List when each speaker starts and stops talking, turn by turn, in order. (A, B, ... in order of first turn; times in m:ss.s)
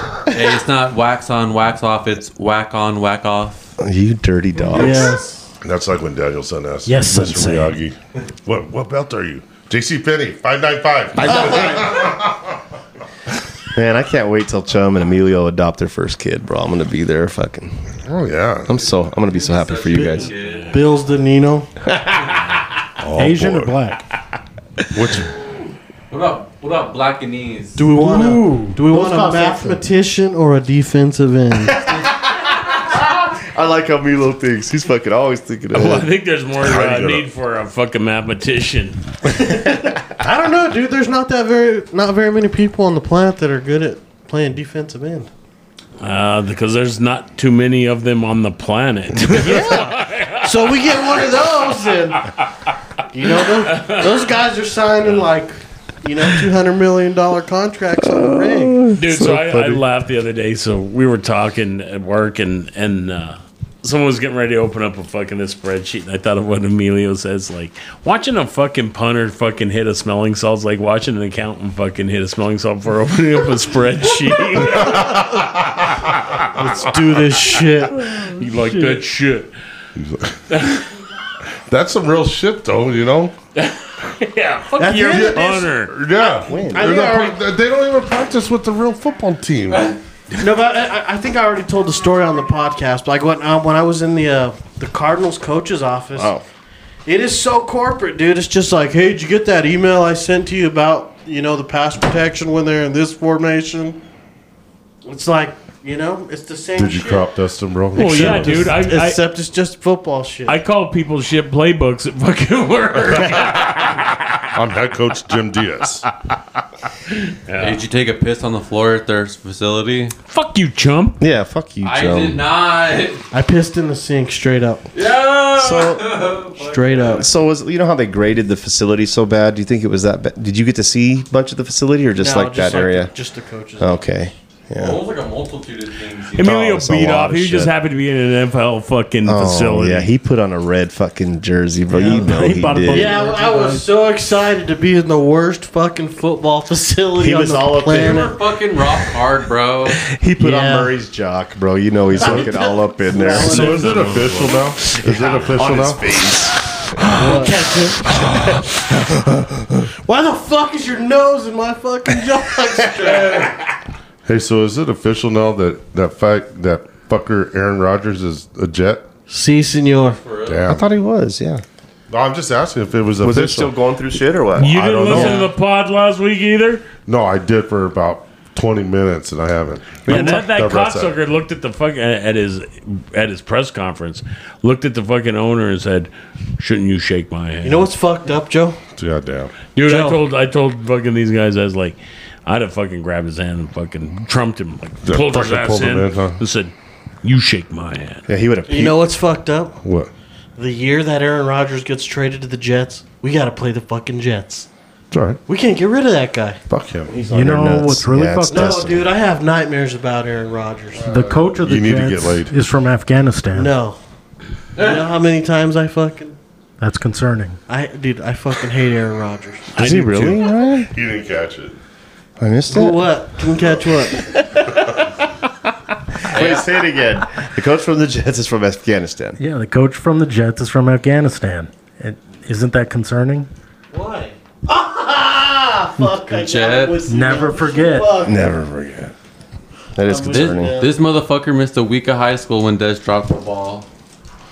0:00.3-0:03.7 A
0:03.8-0:05.1 B
0:04.7-0:05.5 C
0:05.6-0:12.6 D
0:06.8-0:07.8 E
0:11.2-0:12.1 B
0:13.7-0:17.8 B
0:18.0-0:18.9 D
0:18.6-0:20.3 B
0:19.2-0:20.8 A
0:19.9-0:21.7 C
0:21.8-0:22.4 B
0:23.0-0:23.7 D
0:23.2-0:24.0 E
0:24.9-0:25.3 D
0:26.1-0:27.8 A
0:27.8-0:31.8 C
0:27.9-0:29.8 E
0:32.7-0:36.1 B
0:35.7-0:39.0 F
0:36.6-0:37.2 D
0:39.4-0:45.3 C
0:46.0-0:51.4 F
0:49.4-0:49.9 C
0:50.4-0:52.3 C
0:53.1-0:58.9 C
0:53.6-0:54.3 F
0:58.0-0:59.8 B
0:58.9-1:15.1 F
1:14.7-1:16.1 D
1:16.5-1:18.1 C
1:18.1-1:19.5 F
1:18.2-1:19.0 E
1:20.0-1:20.6 D
1:20.5-1:20.8 F
1:21.7-1:23.3 D
1:23.6-1:25.9 F
1:24.8-1:25.7 C
1:25.0-1:29.9 D
1:26.2-1:27.0 B
1:26.7-1:27.3 E
1:30.3-1:36.3 C
1:36.1-1:36.4 B
1:37.0-1:44.0 C
1:45.0-1:47.3 C
1:46.8-1:48.7 D
1:47.9-1:50.6 C
1:48.0-1:49.2 F
1:50.5-1:54.1 F
1:54.5-1:56.0 D
1:57.4-1:57.8 F
1:57.6-2:00.1 A
2:00.3-2:01.2 F
2:01.2-2:02.4 B
2:01.8-2:03.2 A
2:03.3-2:04.9 C
2:04.9-2:07.3 A
2:05.6-2:06.3 B
2:06.6-2:07.2 C
2:07.1-2:13.1 B
2:12.2-2:14.0 C
2:13.8-2:15.0 B
2:14.7-2:16.5 A
2:16.3-2:20.1 F
2:16.4-2:17.7 B
2:19.2-2:23.2 B
2:21.9-2:23.9 E
2:22.0-2:22.3 C
2:22.9-2:28.4 C
2:27.2-2:28.3 B
2:27.9-2:30.0 A
2:30.1-2:37.4 B
2:30.4-2:30.9 C
2:32.2-2:33.9 C
2:33.4-2:36.2 D
2:33.6-2:34.5 F
2:37.0-2:38.3 C
2:37.2-2:38.0 E
2:38.1-2:39.8 B
2:40.0-2:43.5 C
2:43.0-2:43.5 A
2:44.2-2:49.1 D
2:49.3-2:50.2 C
2:50.1-2:50.6 A
2:50.4-2:50.8 D
2:50.7-2:51.6 B
2:52.1-2:53.7 D
2:53.2-2:55.4 B
2:54.6-2:55.4 D
2:54.6-2:56.9 F
2:57.0-3:01.1 D
3:00.0-3:07.9 F
3:07.6-3:08.8 C
3:09.0-3:09.6 D
3:09.7-3:16.7 F
3:09.8-3:10.2 C
3:15.0-3:16.4 D
3:17.2-3:18.3 F
3:18.3-3:19.0 B
3:18.7-3:19.8 C
3:19.8-3:20.1 D
3:20.6-3:24.7 C
3:25.1-3:25.4 D
3:25.5-3:27.5 C
3:26.7-3:27.2 D
3:27.2-3:29.0 E
3:27.3-3:29.1 B
3:28.5-3:31.1 C
3:30.9-3:32.5 D
3:31.1-3:33.7 E
3:33.5-3:34.0 C
3:34.8-3:36.4 C
3:36.8-3:37.6 E
3:37.7-3:39.7 C
3:39.8-3:40.4 F
3:39.8-3:40.9 B
3:40.0-3:41.8 D
3:42.4-3:43.2 B
3:42.7-3:44.2 C
3:44.2-3:45.0 B
3:46.2-3:49.4 B
3:46.3-3:46.7 A
3:49.4-3:53.5 E
3:53.9-3:58.4 C
3:56.3-3:57.1 A
3:57.1-3:58.2 E
3:58.2-3:59.1 B
3:59.9-4:00.7 B
4:00.0-4:00.9 C
4:00.3-4:03.9 A